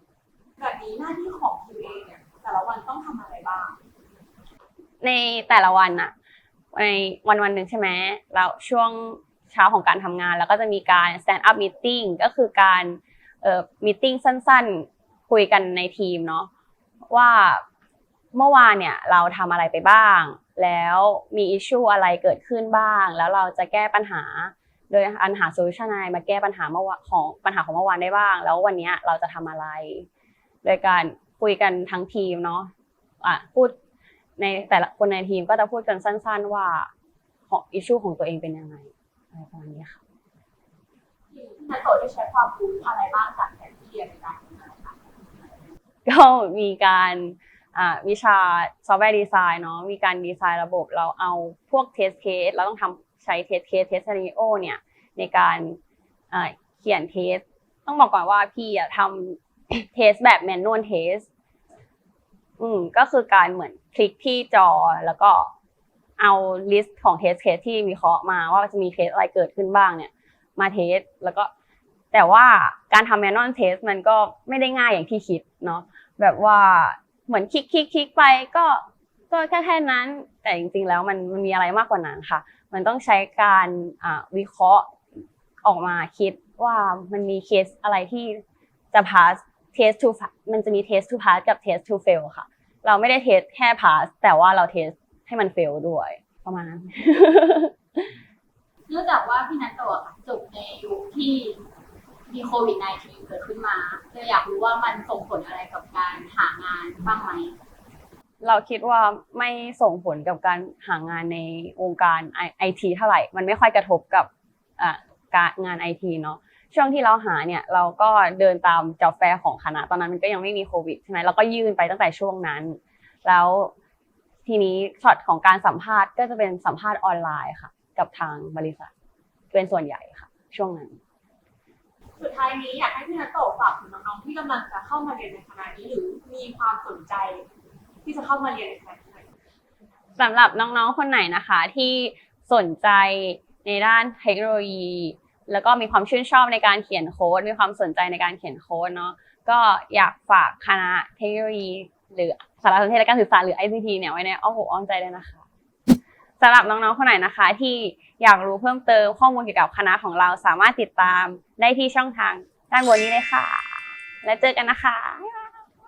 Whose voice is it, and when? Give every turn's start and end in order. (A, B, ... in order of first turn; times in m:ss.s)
0:00.6-0:03.8 A
0:05.0-0:06.1 B
0:06.7-0:16.5 B
0:17.1-0:17.6 B
0:18.3-0:30.1 B
0:30.6-0:32.7 B
0:33.2-0:33.8 B
0:34.4-0:36.9 B
0:37.5-0:40.0 B
0:41.3-0:45.7 A
0:46.0-0:55.8 B
0:56.3-1:01.3 B
1:02.6-1:05.5 B
1:06.2-1:11.5 B
1:12.1-1:25.0 B
1:25.6-1:28.4 B
1:28.9-1:38.1 B
1:38.9-1:41.6 A
1:42.3-1:47.5 A
1:48.4-2:03.7 B
2:04.5-2:08.9 B
2:09.5-2:11.0 B
2:12.2-2:17.4 A
2:18.0-2:19.3 A
2:20.2-2:35.4 B
2:36.4-2:45.6 B